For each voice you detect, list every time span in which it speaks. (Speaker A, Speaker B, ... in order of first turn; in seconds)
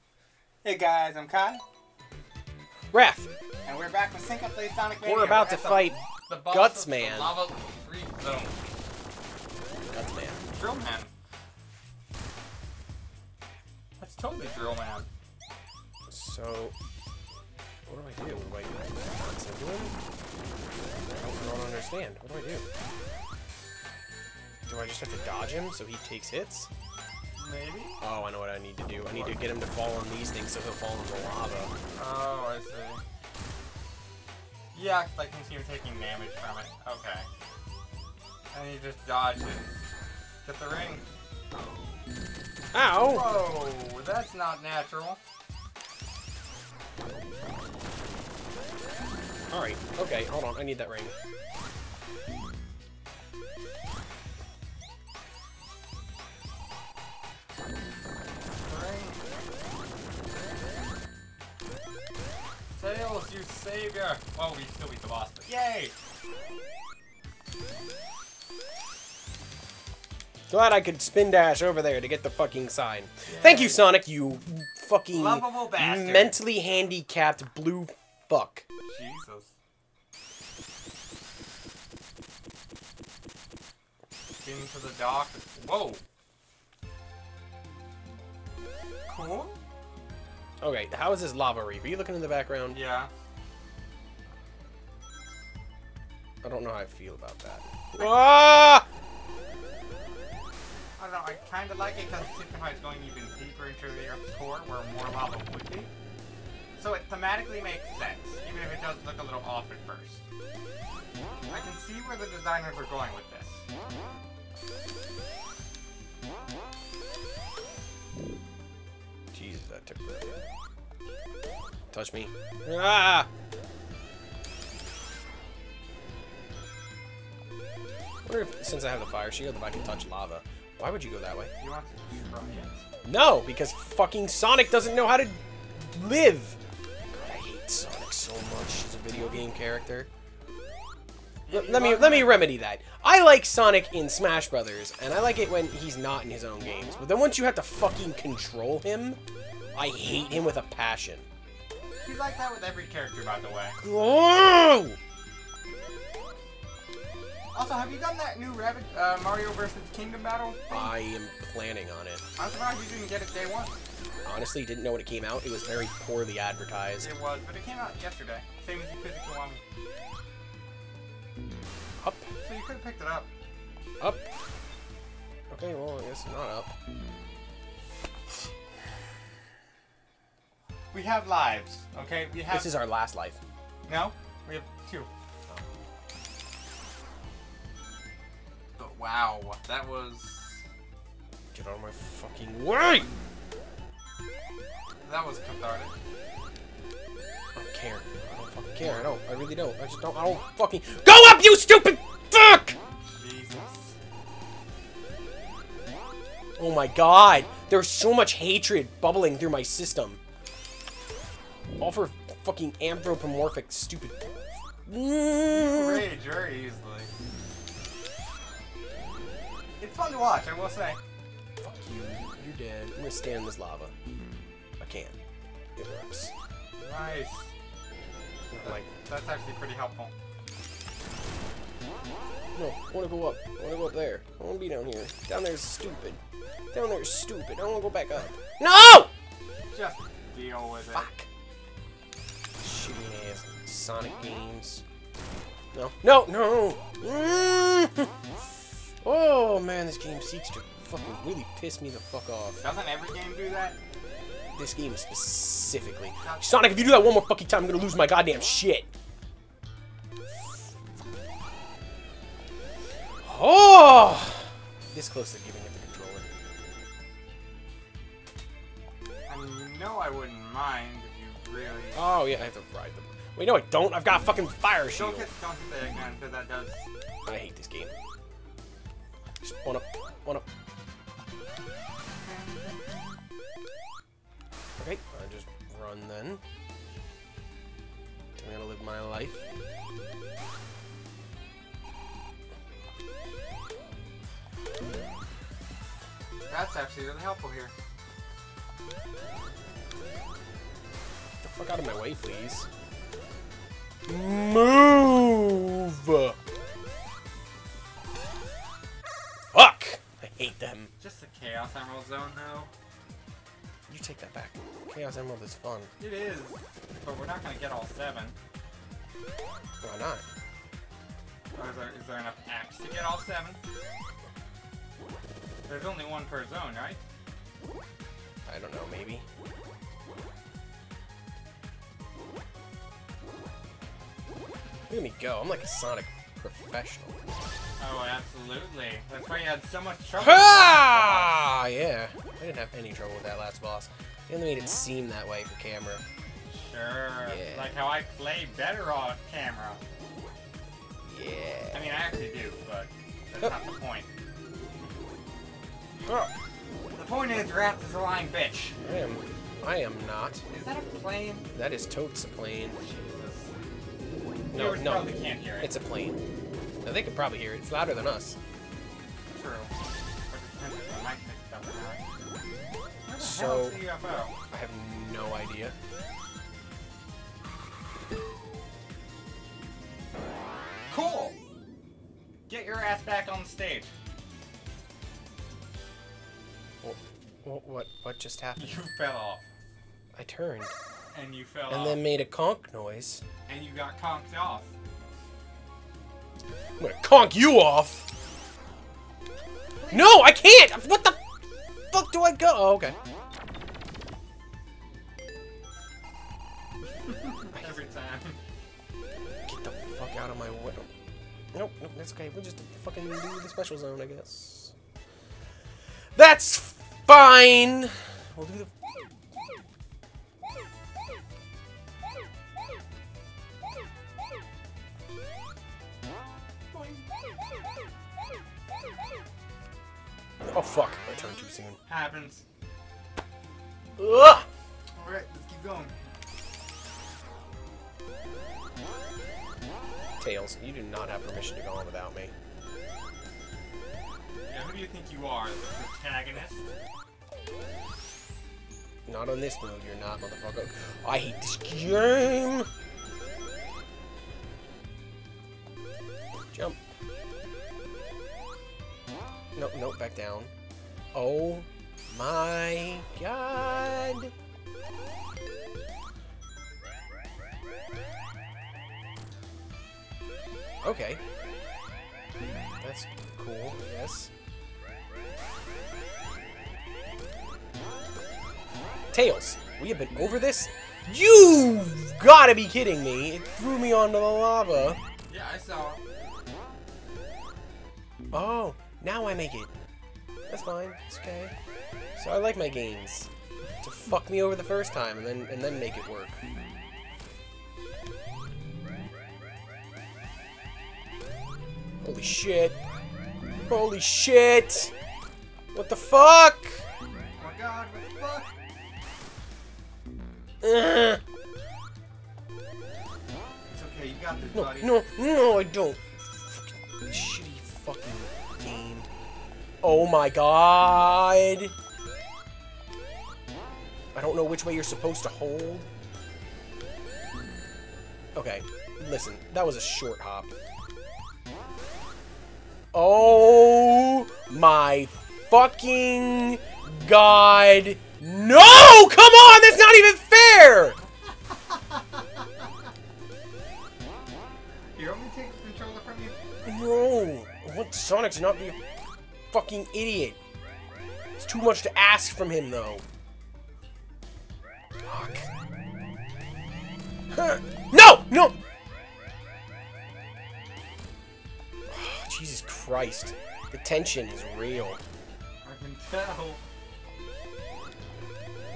Speaker A: 0.6-1.6, 3.6-8.7, 10.5-11.1, 14.0-15.1, 27.4-28.0, 29.1-29.4, 32.0-33.0, 34.7-37.3, 38.5-39.7, 40.5-41.0, 42.9-45.2, 58.6-59.2, 62.8-65.9, 73.3-73.9, 75.1-76.4, 78.9-79.5, 84.4-86.0, 89.1-89.6, 92.7-93.1, 98.0-98.3, 101.0-105.9, 106.8-110.2, 111.5-113.6, 131.6-132.8, 141.5-142.5, 152.0-153.8, 157.5-160.9, 162.4-163.8, 167.0-169.6, 172.4-173.3, 180.9-182.8, 183.9-185.1, 188.8-190.6, 195.0-195.9, 203.1-204.0, 215.6-217.1, 219.8-221.0, 226.8-227.5, 228.6-230.1, 239.7-241.1, 252.6-253.8, 256.2-256.8, 269.3-272.0, 274.9-276.9, 282.2-283.0, 296.5-297.7, 311.0-312.7, 316.0-318.4, 321.6-323.6, 325.7-327.0, 337.8-341.4, 346.5-349.8, 351.7-354.1, 356.9-358.8, 360.5-361.5, 362.7-363.5, 364.5-365.7, 369.3-369.7, 370.3-372.0, 373.1-374.3, 380.9-381.4, 382.5-383.9, 388.6-389.4, 391.1-392.1, 393.5-394.7, 399.8-400.3, 407.1-408.4, 426.7-427.0, 431.9-432.4, 435.0-436.0, 444.5-446.7, 485.3-486.0, 507.4-508.5, 513.7-515.0, 541.5-542.4, 545.0-546.4, 565.6-566.6
Speaker B: 2.9-3.3, 5.0-7.4, 9.9-10.4, 16.1-16.7, 17.9-19.9, 21.2-22.6, 24.7-26.7, 28.0-31.7, 42.7-43.5, 49.5-51.1, 70.5-78.6, 90.6-92.8, 96.4-98.9, 119.3-120.5, 121.9-123.3, 128.2-131.5, 133.1-136.6, 137.1-140.1, 141.5-149.2, 149.8-151.3, 153.8-155.0, 160.7-162.2, 164.2-167.1, 172.0-172.3, 175.5-176.7, 182.5-183.4, 191.5-193.1, 197.6-202.8, 206.6-210.2, 211.8-214.3, 214.9-216.1, 221.6-223.9, 224.8-225.2, 225.8-226.3, 228.5-228.9, 232.6-236.2, 236.7-239.1, 240.9-241.3, 242.6-244.8, 245.7-248.1, 249.0-252.6, 254.6-258.9, 263.2-266.2, 271.9-275.3, 277.3-277.9, 279.4-280.4, 284.8-286.4, 288.4-289.4, 301.4-302.7, 304.1-306.4, 309.5-310.9, 313.9-315.9, 319.8-320.2, 328.5-329.2, 334.9-337.2, 340.2-346.0, 347.3-347.8, 351.1-351.9, 356.1-356.3, 358.8-360.4, 361.5-362.8, 364.5-366.2, 366.8-368.4, 373.2-373.9, 374.5-375.8, 386.8-388.8, 390.2-390.7, 391.7-393.2, 396.8-398.1, 399.9-401.2, 401.9-403.0, 409.5-410.9, 411.5-414.7, 416.2-418.7, 430.4-431.8, 434.0-434.5, 440.2-442.3, 449.1-452.7, 456.5-456.8, 459.6-460.5, 461.1-464.3, 470.8-471.2, 472.8-474.3, 479.1-485.0, 488.3-489.7, 490.5-491.5, 492.2-493.3, 493.8-496.4, 502.0-502.8, 503.7-504.9, 505.7-506.8, 510.6-511.2, 514.5-519.1, 519.8-521.7, 524.1-525.9, 528.4-530.5, 532.9-541.0, 546.6-548.8, 549.5-550.4, 551.4-553.0, 555.0-555.5, 557.3-558.6, 561.9-565.0